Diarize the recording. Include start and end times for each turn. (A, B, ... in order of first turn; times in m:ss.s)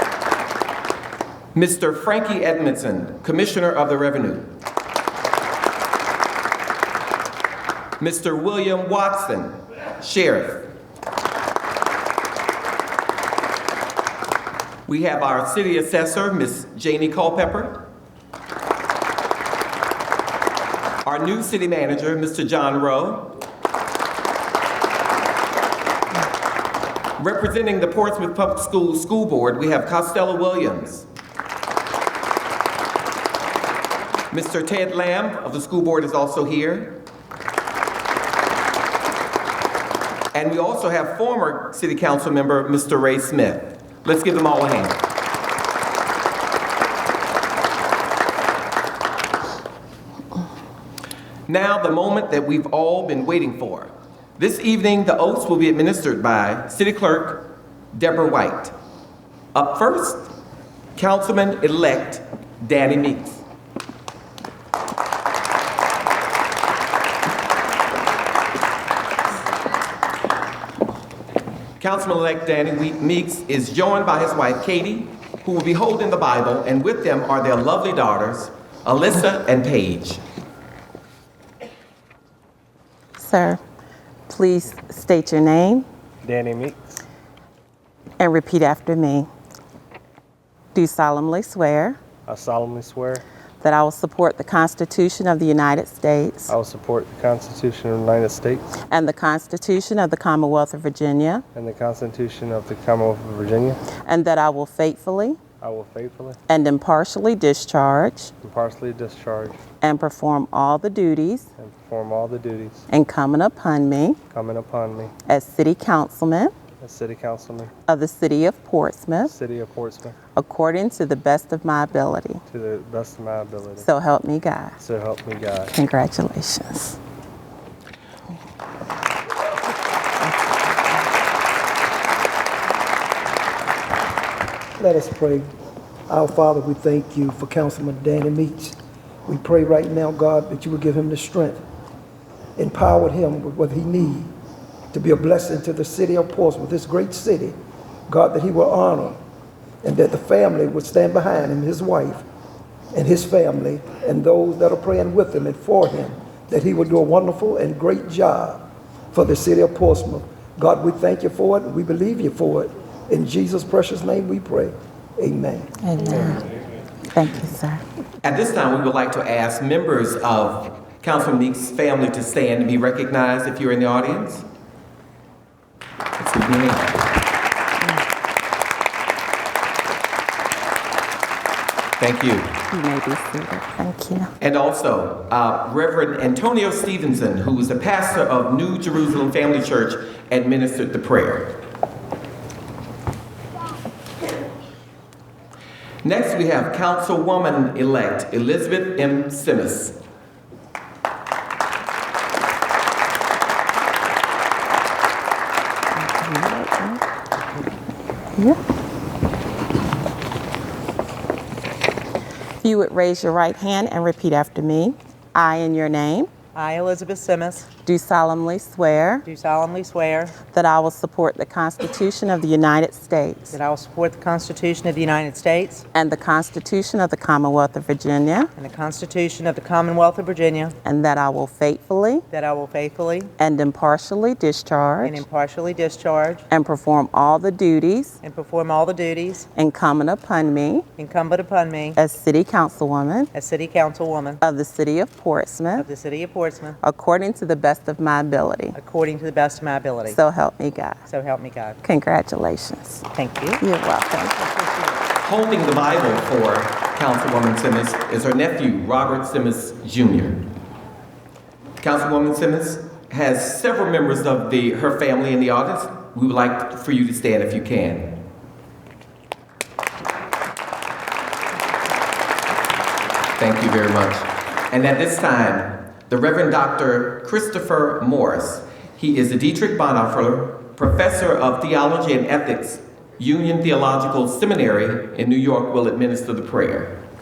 0:01.5-0:04.5 A
0:08.0-0:10.7 A
0:14.9-0:17.8 A
0:21.0-0:23.3 A
0:27.2-0:31.1 A
0:34.3-0:37.0 A
0:40.3-0:45.0 A
0:51.5-0:58.7 A
0:59.5-1:00.3 A
1:01.0-1:03.4 A
1:11.8-1:20.2 A
1:23.2-1:23.6 B
1:24.3-1:25.8 B
1:26.2-1:27.0 C
1:28.2-1:29.3 B
1:30.7-1:32.0 B
1:32.2-1:33.2 C
1:33.6-1:36.5 B
1:36.5-1:38.7 C
1:38.9-1:41.4 B
1:41.5-1:43.8 C
1:44.0-1:45.4 B
1:45.6-1:46.4 C
1:46.5-1:48.3 B
1:48.4-1:49.6 C
1:49.8-1:51.5 B
1:51.6-1:52.8 C
1:52.9-1:54.2 B
1:54.3-1:55.1 C
1:55.3-1:56.5 B
1:56.8-1:57.7 C
1:57.9-1:59.3 B
1:59.2-2:00.2 C
2:00.4-2:02.4 B
2:02.5-2:03.9 C
2:03.8-2:04.8 B
2:04.8-2:05.8 C
2:05.7-2:07.0 B
2:14.8-2:15.5 D
2:16.1-2:21.6 D
2:22.6-2:24.3 D
2:24.9-2:27.6 D
2:28.1-2:29.2 D
2:29.8-2:32.2 D
2:32.9-2:45.7 D
2:45.8-2:46.5 B
2:47.1-2:47.8 B
2:48.2-2:54.4 A
2:56.2-2:57.0 A
3:02.0-3:02.6 A
3:02.7-3:04.3 B
3:04.4-3:11.5 A
3:16.0-3:20.0 A
3:26.0-3:27.0 B
3:32.6-3:36.3 B
3:36.5-3:37.7 E
3:37.8-3:39.2 B
3:39.2-3:40.4 E
3:40.5-3:43.5 B
3:43.5-3:45.8 E
3:45.9-3:48.5 B
3:48.6-3:50.7 E
3:50.8-3:52.2 B
3:52.3-3:53.3 E
3:53.4-3:55.2 B
3:55.0-3:56.4 E
3:56.5-3:58.2 B
3:58.2-3:59.5 E
3:59.5-4:00.8 B
4:01.0-4:02.0 E
4:02.0-4:03.3 B
4:03.3-4:04.4 E
4:04.4-4:05.8 B
4:05.8-4:06.8 E
4:06.8-4:08.8 B
4:08.7-4:10.2 E
4:10.0-4:11.0 B
4:11.0-4:11.8 E
4:11.8-4:13.0 B
4:13.1-4:13.6 E
4:13.6-4:14.4 B
4:15.2-4:20.4 A
4:21.8-4:28.2 A
4:33.4-4:47.0 A